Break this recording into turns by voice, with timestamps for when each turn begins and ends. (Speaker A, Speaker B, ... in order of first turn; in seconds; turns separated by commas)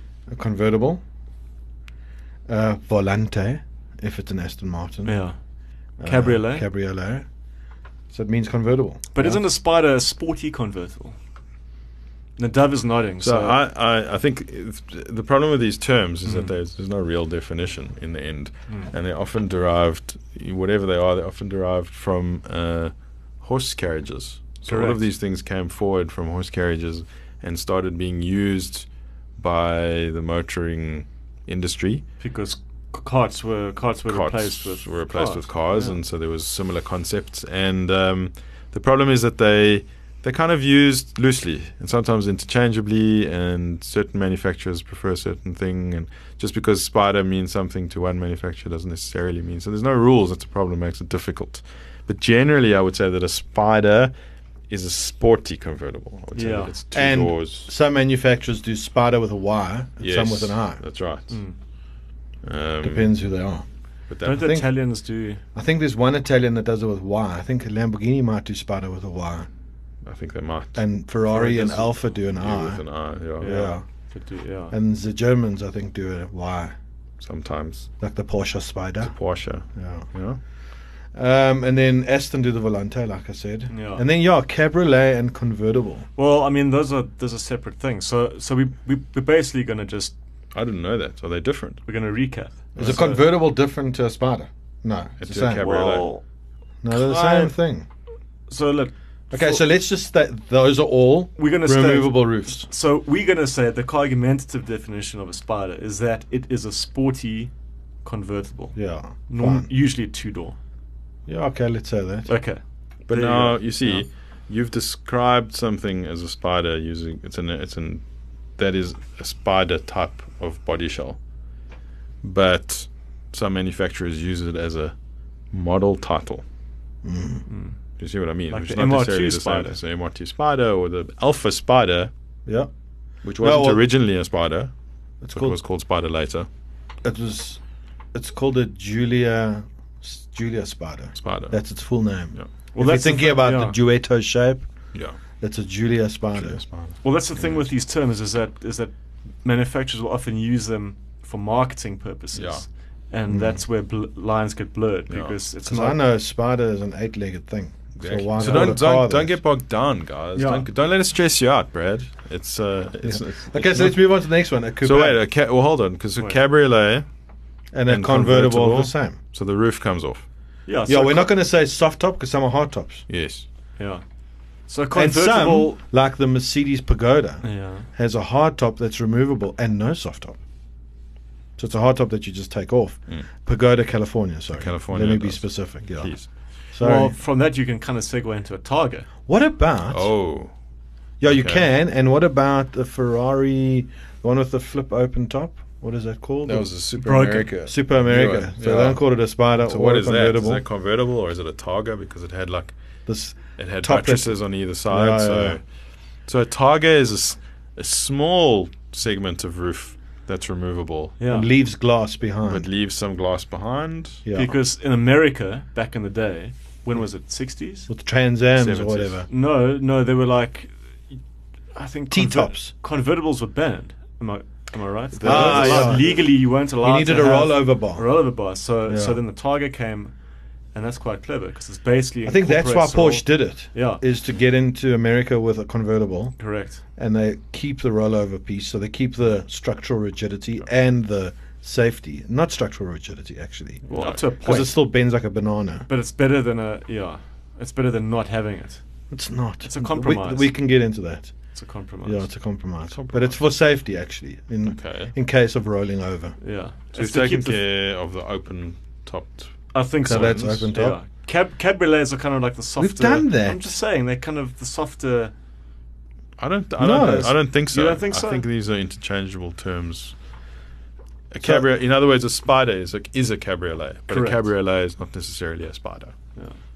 Speaker A: 0.3-1.0, Speaker A: 2.5-5.3, Speaker B: 5.0-5.4, Speaker A: 6.0-7.3, Speaker B: 6.0-6.7, Speaker A: 8.1-9.4, Speaker B: 9.1-11.2, Speaker B: 12.4-13.6, Speaker C: 13.2-32.0, Speaker B: 16.2-16.5, Speaker B: 24.7-25.1, Speaker B: 32.2-36.0, Speaker C: 34.1-54.1, Speaker C: 54.7-57.7, Speaker B: 56.3-56.8, Speaker A: 56.9-60.8, Speaker C: 60.0-61.4, Speaker B: 61.3-61.6, Speaker C: 62.4-63.2, Speaker A: 62.8-63.7, Speaker C: 64.1-64.6, Speaker B: 64.2-65.4, Speaker A: 64.3-64.7, Speaker A: 65.5-69.5, Speaker C: 70.0-73.7, Speaker A: 70.8-72.8, Speaker A: 73.4-73.8, Speaker B: 73.4-74.8, Speaker A: 74.7-76.8, Speaker C: 77.2-77.9, Speaker A: 78.0-79.2, Speaker C: 79.0-80.4, Speaker A: 79.7-80.1, Speaker A: 81.1-86.1, Speaker B: 83.7-84.0, Speaker B: 86.2-90.1, Speaker C: 90.5-91.8, Speaker B: 91.9-93.3, Speaker C: 92.8-93.1, Speaker A: 92.8-95.7, Speaker C: 95.2-96.1, Speaker B: 95.5-96.2, Speaker A: 96.8-97.9, Speaker B: 96.9-97.6, Speaker B: 98.5-99.7, Speaker A: 99.3-102.7, Speaker B: 101.4-107.5, Speaker B: 108.0-110.6, Speaker A: 108.8-109.7, Speaker A: 111.3-112.3, Speaker B: 112.3-114.0, Speaker C: 113.1-118.0, Speaker C: 118.6-121.2, Speaker C: 122.2-125.0, Speaker C: 125.5-126.4, Speaker A: 127.0-127.5, Speaker B: 127.5-127.8, Speaker C: 128.0-132.1, Speaker B: 128.5-129.8, Speaker C: 133.2-134.7, Speaker A: 133.4-133.9, Speaker A: 135.2-135.6, Speaker C: 135.3-136.5, Speaker A: 137.0-137.6, Speaker A: 138.1-144.7, Speaker C: 141.2-141.6, Speaker B: 142.7-143.8, Speaker C: 144.9-145.2, Speaker A: 145.4-146.6, Speaker C: 146.3-147.7, Speaker B: 147.0-156.0, Speaker C: 152.3-152.7, Speaker A: 153.3-153.6, Speaker C: 155.1-155.4, Speaker A: 155.7-159.4, Speaker C: 158.0-164.2, Speaker B: 158.4-158.8, Speaker B: 160.3-160.7, Speaker A: 163.0-165.2, Speaker C: 164.8-167.1, Speaker A: 167.7-169.2, Speaker C: 167.9-170.3, Speaker B: 170.7-171.3, Speaker A: 170.9-173.1, Speaker C: 173.1-173.5, Speaker B: 173.8-174.0, Speaker B: 174.7-175.7, Speaker A: 174.9-180.4, Speaker B: 177.4-177.9, Speaker A: 181.6-186.2, Speaker C: 184.5-186.3, Speaker A: 186.7-187.2, Speaker B: 186.8-189.1, Speaker A: 189.3-190.1, Speaker C: 189.9-190.5, Speaker A: 191.2-196.7, Speaker C: 191.2-191.7, Speaker C: 196.4-202.8, Speaker B: 197.0-197.5, Speaker A: 197.6-200.6, Speaker A: 203.1-205.6, Speaker C: 203.3-205.6, Speaker C: 206.3-211.2, Speaker B: 211.2-211.5, Speaker A: 211.2-212.7, Speaker C: 212.4-214.2, Speaker A: 214.2-214.6, Speaker B: 214.3-217.9, Speaker A: 217.9-219.3, Speaker C: 218.6-219.2, Speaker B: 219.3-220.7, Speaker B: 221.7-230.1, Speaker A: 222.1-222.7, Speaker C: 225.1-226.2, Speaker A: 225.2-228.1, Speaker A: 228.9-229.2, Speaker B: 230.7-234.0, Speaker A: 232.2-236.4, Speaker B: 236.4-236.8, Speaker A: 236.9-245.9, Speaker B: 243.9-244.9, Speaker C: 243.9-244.3, Speaker B: 245.9-248.8, Speaker A: 249.1-251.3, Speaker B: 249.6-250.5, Speaker B: 251.5-252.3, Speaker A: 252.1-256.4, Speaker C: 252.9-253.4, Speaker C: 254.6-255.2, Speaker B: 256.4-257.6, Speaker C: 256.9-260.7, Speaker B: 259.7-265.3, Speaker A: 260.1-261.0, Speaker A: 262.8-263.6, Speaker C: 266.4-270.2, Speaker A: 266.8-267.4, Speaker B: 266.9-268.4, Speaker C: 271.3-276.1, Speaker B: 274.1-274.5